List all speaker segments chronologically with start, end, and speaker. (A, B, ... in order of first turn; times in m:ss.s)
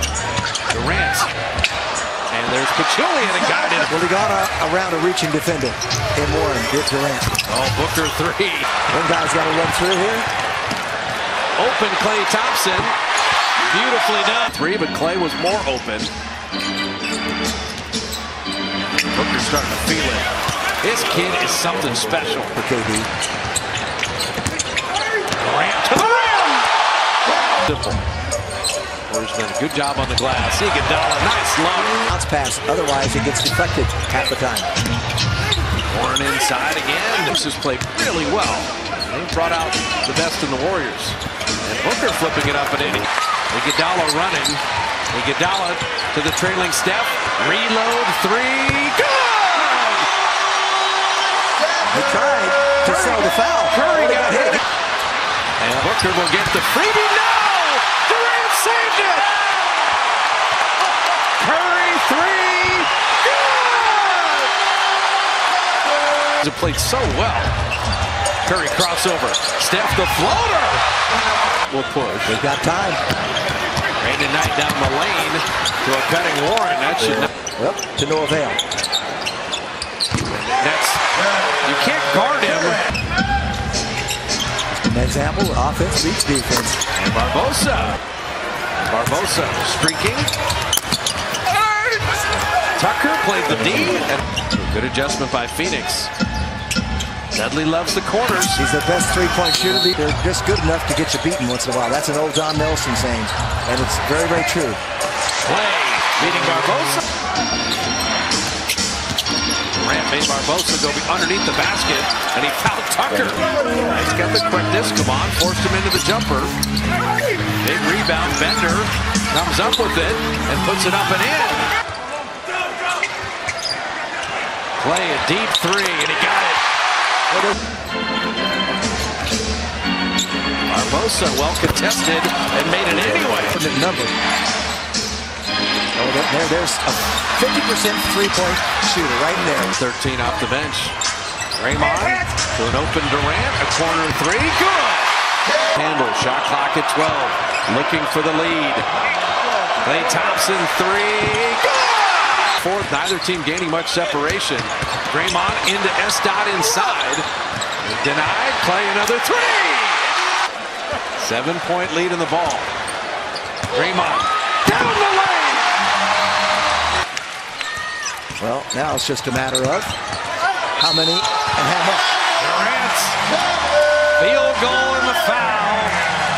0:00.7-0:01.3 A
0:02.3-0:03.9 A
0:03.8-0:07.3 B
0:07.5-0:08.7 A
0:08.9-0:10.3 B
0:11.6-0:13.0 A
0:13.7-0:16.1 A
0:19.1-0:20.3 A
0:20.8-0:22.6 A
0:22.6-0:23.1 B
0:25.4-0:26.6 A
0:27.6-0:28.0 A
0:29.1-0:32.0 A
0:32.1-0:34.7 B
0:35.9-0:50.1 A
0:51.9-0:54.6 B
0:52.8-0:54.6 A
0:55.6-0:59.4 A
1:01.4-1:04.5 A
1:06.4-1:07.5 A
1:08.4-1:10.8 A
1:11.7-1:12.4 A
1:12.3-1:13.0 B
1:14.0-1:17.3 A
1:17.6-1:18.6 B
1:20.3-1:21.0 A
1:21.6-1:22.8 A
1:24.7-1:26.8 B
1:27.0-1:28.0 A
1:28.8-1:30.3 A
1:32.7-1:36.1 A
1:37.3-1:38.6 A
1:38.6-1:44.8 B
1:45.4-1:47.0 A
1:49.8-1:56.5 A
1:57.6-2:01.7 A
2:04.8-2:06.6 A
2:07.3-2:07.6 B
2:10.7-2:13.6 A
2:13.5-2:14.1 B
2:16.0-2:19.7 B
2:19.7-2:21.0 A
2:21.6-2:25.1 A
2:25.8-2:28.9 A
2:29.8-2:37.3 A
2:37.8-2:40.2 A
2:41.2-2:42.7 A
2:43.7-2:45.8 A
2:48.4-2:49.9 B
2:50.8-2:52.0 B
2:52.4-2:53.2 A
2:54.2-2:56.0 A